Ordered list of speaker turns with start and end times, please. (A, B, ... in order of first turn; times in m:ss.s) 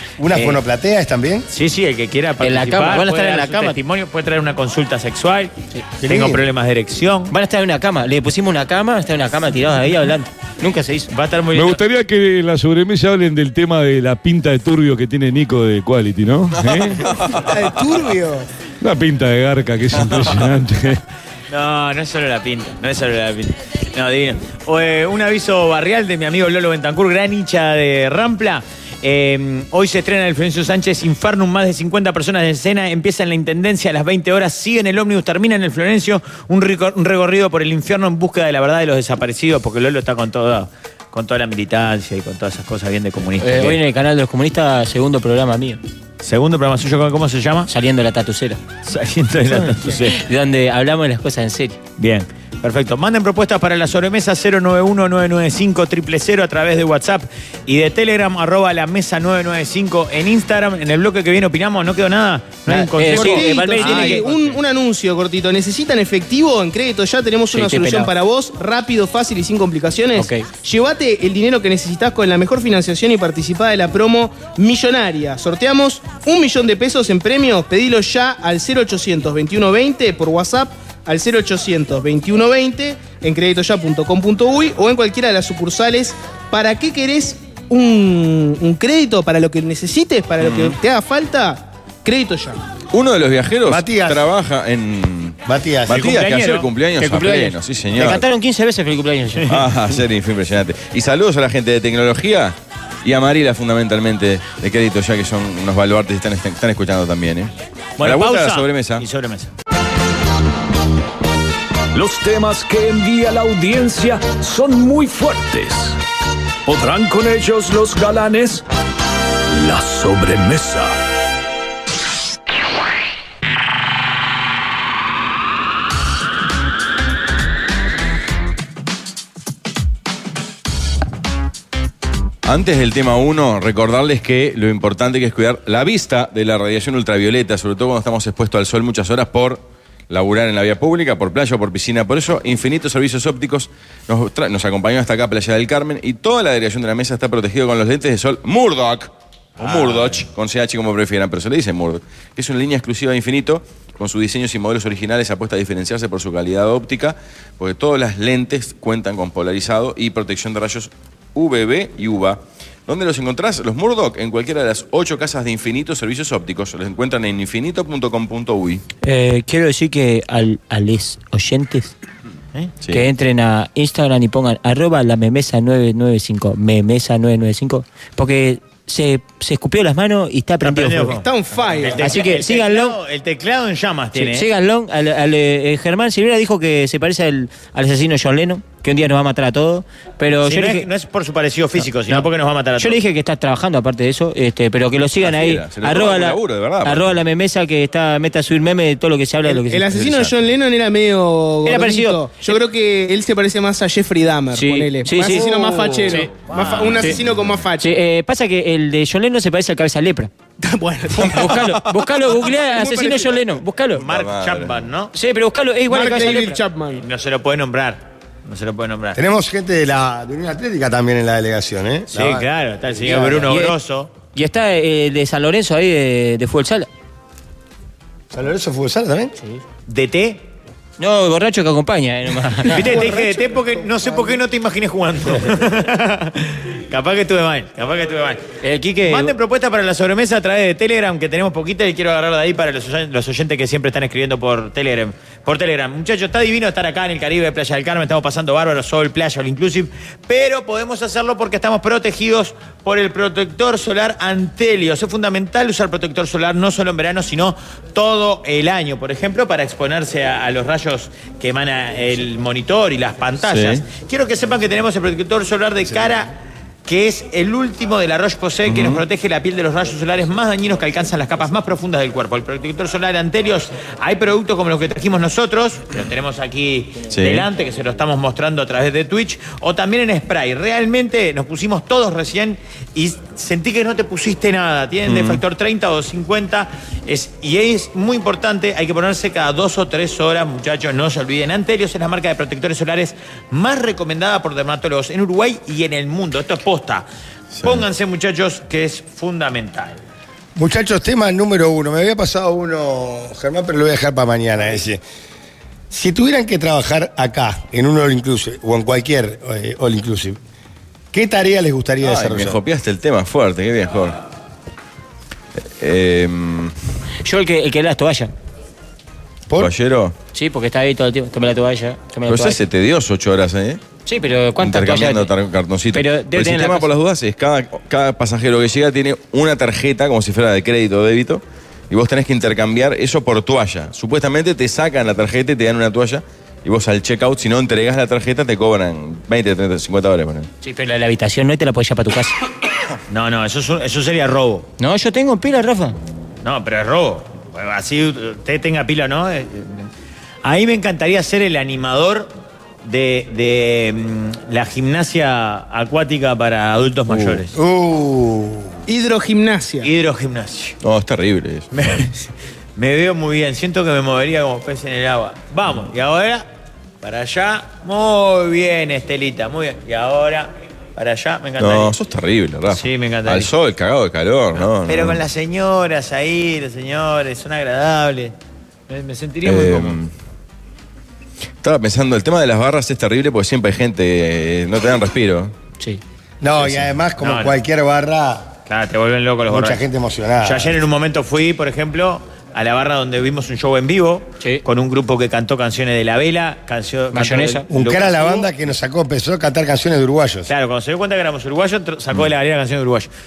0:00.2-0:01.5 A
0:01.5-0:05.5 B
0:02.4-0:03.8 C
0:06.0-0:06.4 A
0:06.0-0:07.3 B
0:07.3-0:11.1 C
0:11.1-0:11.8 B
0:11.5-0:17.1 D
0:16.5-0:17.6 E
0:17.4-0:18.5 F
0:18.8-0:21.0 D
0:21.5-0:43.8 B
0:43.4-0:45.8 C
0:46.2-0:47.7 B
0:47.7-0:48.6 C
0:48.8-0:50.2 B
0:49.5-0:51.8 C
0:52.0-1:04.4 B
1:02.7-1:04.3 C
1:03.1-1:32.6 F
1:07.5-1:08.1 C
1:10.2-1:10.4 C
1:30.4-1:30.8 E
1:32.9-1:38.2 E
1:33.6-1:34.2 A
1:35.5-1:36.2 A
1:35.9-1:36.7 B
1:37.0-1:39.6 C
1:39.5-1:49.0 E
1:48.0-1:49.5 B
1:51.9-1:56.0 G
1:56.6-1:58.6 G
1:59.5-2:01.0 G
2:12.4-2:48.8 E
2:29.6-2:30.2 B
2:49.0-2:51.9 C
2:52.8-2:53.1 E
2:52.9-3:01.2 C
3:00.6-3:04.5 B
3:01.1-3:02.1 F
3:02.0-3:03.0 C
3:04.1-3:10.9 C
3:10.4-3:13.0 B
3:12.1-3:20.3 C
3:15.2-3:17.2 E
3:19.4-3:27.9 F
3:21.6-3:22.6 C
3:24.5-3:27.2 C
3:26.5-3:27.0 B
3:27.8-3:30.3 C
3:30.6-3:31.6 F
3:31.2-3:34.0 C
3:31.2-3:31.8 E
3:32.5-3:33.4 F
3:34.0-3:35.1 B
3:34.0-3:34.8 E
3:35.1-3:36.6 C
3:35.9-3:37.0 F
3:36.9-3:39.2 B
3:39.1-3:43.5 A
3:42.1-3:44.1 B
3:43.2-3:43.8 C
3:44.3-3:46.9 C
3:48.3-3:49.3 A
3:49.9-3:50.4 B
3:51.0-3:53.1 C
3:52.6-3:58.4 B
3:52.7-3:54.4 F
3:58.6-3:59.3 C
3:59.0-4:26.3 B
4:23.4-4:23.8 E
4:26.8-4:57.0 B
4:28.6-4:29.0 E
4:37.1-4:37.5 E
4:45.0-4:45.4 E
4:57.5-4:57.8 E
4:57.6-5:00.0 B
5:00.5-5:05.0 A
5:05.9-5:10.4 A
5:11.1-5:12.6 A
5:12.0-5:14.2 E
5:15.6-5:16.7 E
5:17.2-5:18.3 C
5:19.6-5:20.2 E
5:20.3-5:22.6 C
5:22.3-5:23.8 E
5:24.0-5:25.3 C
5:24.6-5:40.5 E
5:25.9-5:26.9 C
5:40.6-5:42.3 C
5:43.1-5:44.7 B
5:44.8-5:46.0 C
5:46.4-5:49.9 B
5:50.4-5:52.3 B
5:52.8-5:57.6 B
5:57.1-5:57.4 E
5:57.5-5:58.7 A
5:58.9-5:59.9 F
5:59.8-6:00.8 B
6:00.8-6:01.6 E
6:01.7-6:06.5 B
6:07.0-6:11.9 B
6:11.6-6:15.2 E
6:12.7-6:13.5 B
6:14.6-6:18.3 B
6:18.9-6:20.0 B
6:19.4-6:20.1 E
6:21.6-6:25.5 E
6:26.4-6:28.5 A
6:27.2-6:27.6 B
6:28.7-6:29.8 B
6:29.5-6:30.8 A
6:30.4-6:38.5 B
6:37.1-6:37.6 C
6:37.7-6:40.5 A
6:40.5-6:43.1 B